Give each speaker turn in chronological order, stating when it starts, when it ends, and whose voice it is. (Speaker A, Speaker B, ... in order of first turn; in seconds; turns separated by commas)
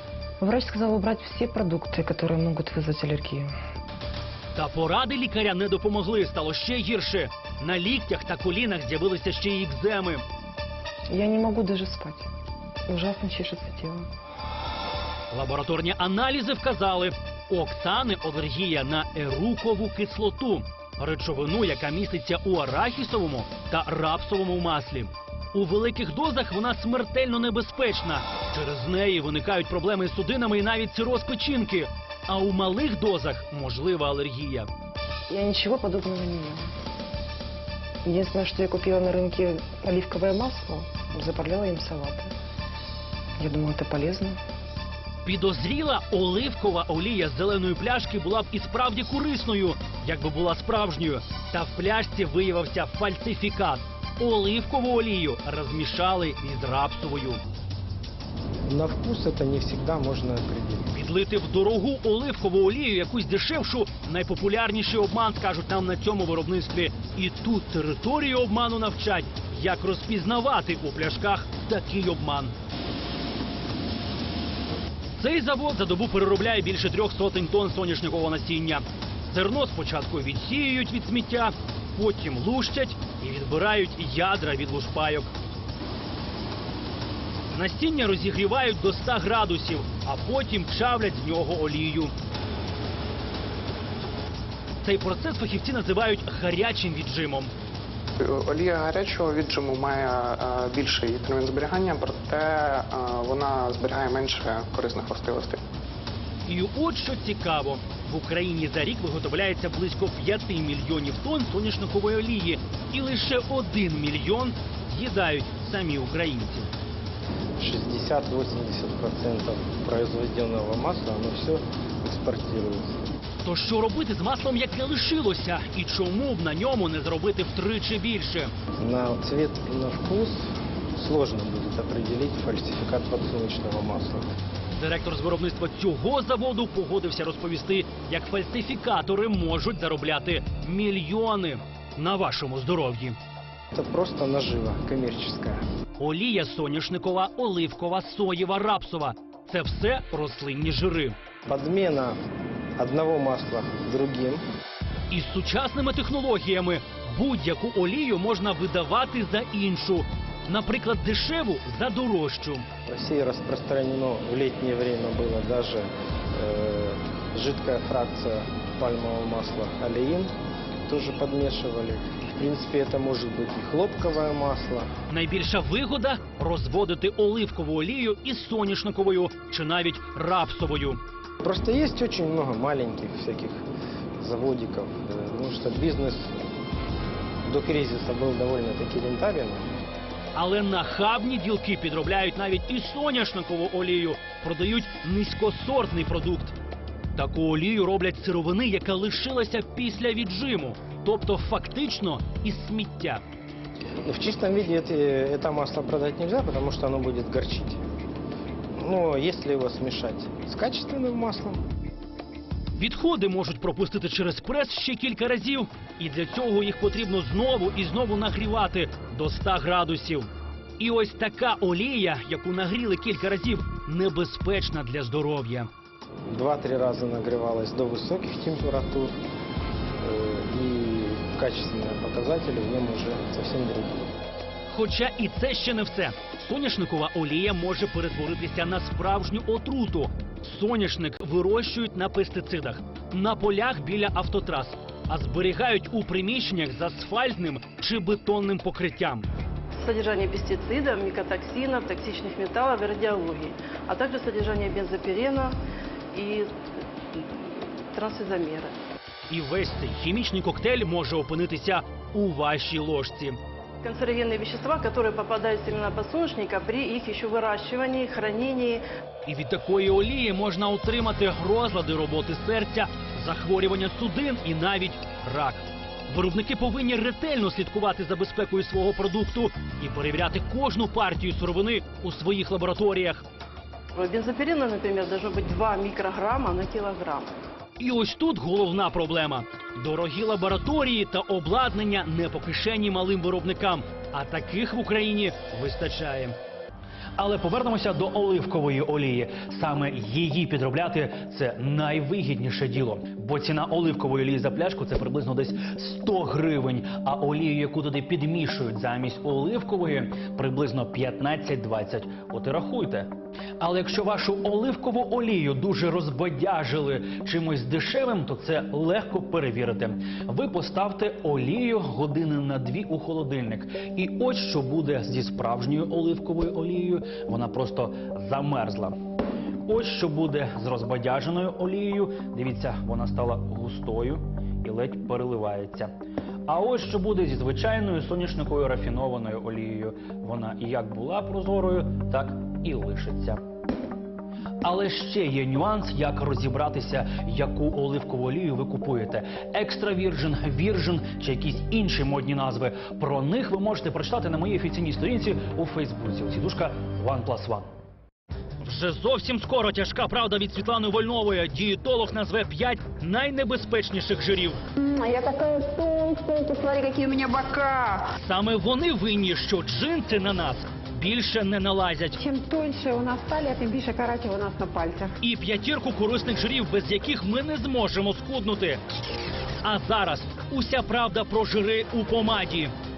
Speaker A: 0.4-3.5, Speaker B: 4.5-10.2, Speaker A: 11.1-12.3, Speaker A: 12.9-14.1, Speaker B: 15.3-34.7, Speaker A: 35.3-36.6, Speaker A: 38.0-42.3, Speaker A: 43.4-44.4, Speaker B: 45.2-57.4, Speaker C: 58.7-60.9, Speaker B: 60.9-72.5, Speaker B: 75.2-85.3, Speaker B: 87.5-92.1, Speaker B: 94.8-97.5, Speaker D: 98.2-105.6, Speaker B: 106.5-116.7, Speaker C: 117.6-123.0, Speaker B: 123.4-128.5, Speaker C: 128.8-134.2, Speaker B: 134.8-143.2, Speaker C: 143.7-145.6, Speaker B: 146.0-151.2, Speaker C: 151.5-152.2, Speaker C: 152.8-154.4, Speaker B: 155.1-162.7, Speaker C: 162.9-170.3, Speaker C: 170.9-174.9, Speaker B: 175.1-181.0, Speaker C: 181.4-183.6, Speaker C: 184.2-186.3, Speaker C: 187.5-189.8, Speaker B: 190.3-196.6, Speaker B: 197.1-203.2, Speaker C: 204.0-207.8, Speaker C: 208.8-211.6, Speaker B: 212.8-225.7, Speaker C: 226.3-229.2, Speaker C: 230.0-234.1, Speaker B: 234.7-249.3, Speaker E: 249.8-255.5, Speaker E: 256.1-256.5, Speaker E: 257.1-258.7, Speaker B: 259.3-263.4, Speaker E: 263.8-268.8, Speaker B: 269.2-283.2, Speaker E: 283.9-287.3, Speaker B: 287.8-296.4, Speaker B: 297.2-329.0, Speaker B: 329.6-335.9, Speaker B: 336.5-343.4, Speaker B: 344.6-357.7, Speaker B: 358.6-364.6, Speaker F: 364.8-368.1, Speaker B: 368.2-372.2, Speaker F: 372.2-375.1, Speaker B: 375.2-378.8, Speaker B: 379.6-382.7